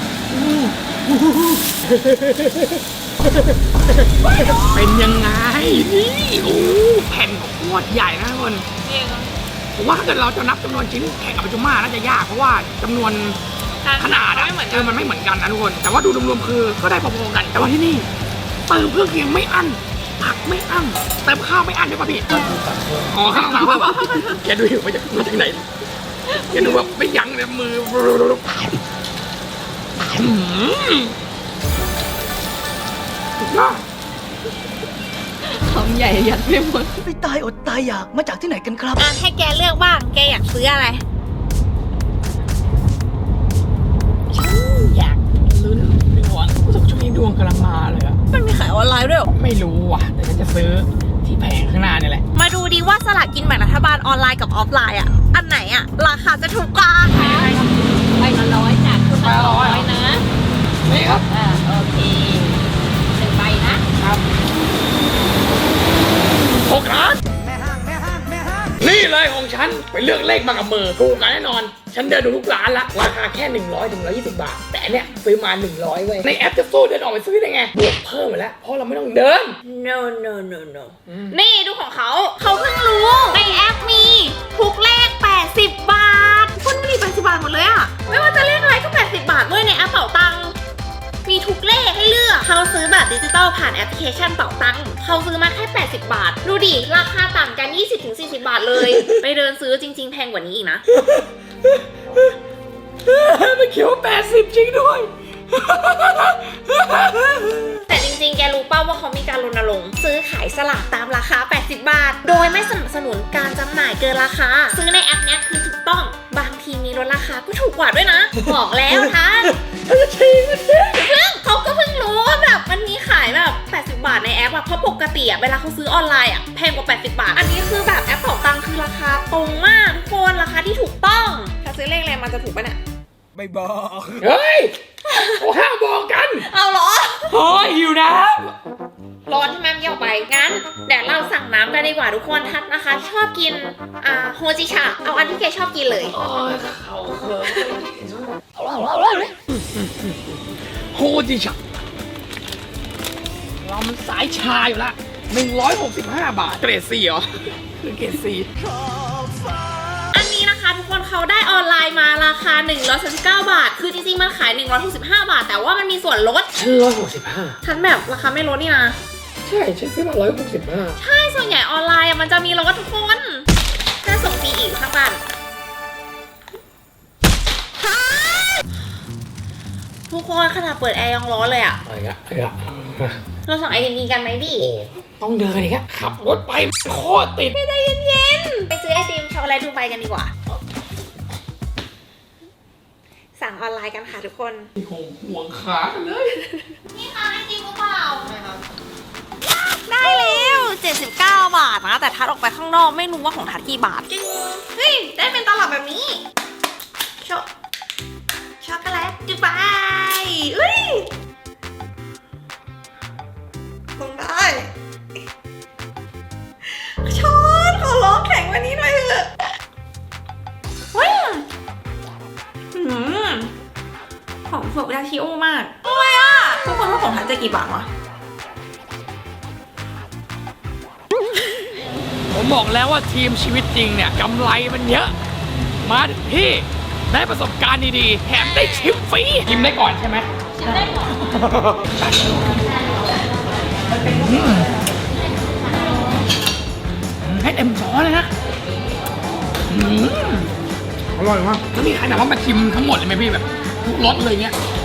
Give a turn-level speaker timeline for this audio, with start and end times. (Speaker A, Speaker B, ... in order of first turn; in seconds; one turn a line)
Speaker A: 0.3-8.7
Speaker B: 8.8-9.3
Speaker A: 9.7-13.4
Speaker B: 13.8-15.0
Speaker A: 14.0-18.1
Speaker A: 18.7-25.7
Speaker B: 23.7-24.4
Speaker A: 26.3-28.7
Speaker A: 30.0-31.1
Speaker A: 33.4-33.8
Speaker C: 35.4-37.0
Speaker D: 37.0-39.0
Speaker B: 39.0-41.0
Speaker A: 44.3-48.2
Speaker B: 48.3-49.3
Speaker A: 49.3-52.2
Speaker B: 52.3-57.5
Speaker A: 57.2-57.5
Speaker C: 57.3-57.8
Speaker B: 58.1-60.2
Speaker A: 59.2-59.9
Speaker A: 60.8-61.3
Speaker B: 61.3-62.5
Speaker B: 63.1-63.8
Speaker A: 64.0-64.2
Speaker A: 66.5-67.2
Speaker A: 68.8-79.6
Speaker B: 79.6-90.5
Speaker A: 81.1-81.3
Speaker B: 91.2-100.8
Speaker A: 98.8-99.2
Speaker A: 100.9-102.3
Speaker A: 103.0-107.8
Speaker B: 107.9-119.6
Speaker A: 119.6-121.1
Speaker B: 120.9-132.8
Speaker A: 134.2-134.8
Speaker B: 135.1-135.4
Speaker A: 135.3-136.5
Speaker B: 136.4-137.4
Speaker A: 137.3-138.5
Speaker B: 139.3-146.2
Speaker A: 146.1-148.4
Speaker A: 149.5-151.6
Speaker A: 153.6-158.5
Speaker B: 160.1-166.5
Speaker A: 166.5-167.6
Speaker B: 167.6-169.0
Speaker A: 169.4-171.0
Speaker B: 171.0-173.5
Speaker B: 174.0-175.2
Speaker B: 180.1-181.8
Speaker A: 181.8-183.2
Speaker B: 183.4-184.7
Speaker A: 184.6-187.6
Speaker B: 187.5-190.3
Speaker B: 193.3-194.7
Speaker A: 194.8-196.4
Speaker B: 196.8-198.3
Speaker B: 199.4-206.2
Speaker B: 208.6-211.1
Speaker B: 214.0-214.7
Speaker B: 216.7-219.3
Speaker B: 220.9-221.4
Speaker B: 222.7-223.5
Speaker B: 224.5-227.9
Speaker A: 232.3-235.1
Speaker A: 235.8-240.3
Speaker A: 241.1-242.5
Speaker A: 243.9-244.7
Speaker A: 247.2-248.3
Speaker A: 249.7-250.5
Speaker A: 251.2-254.6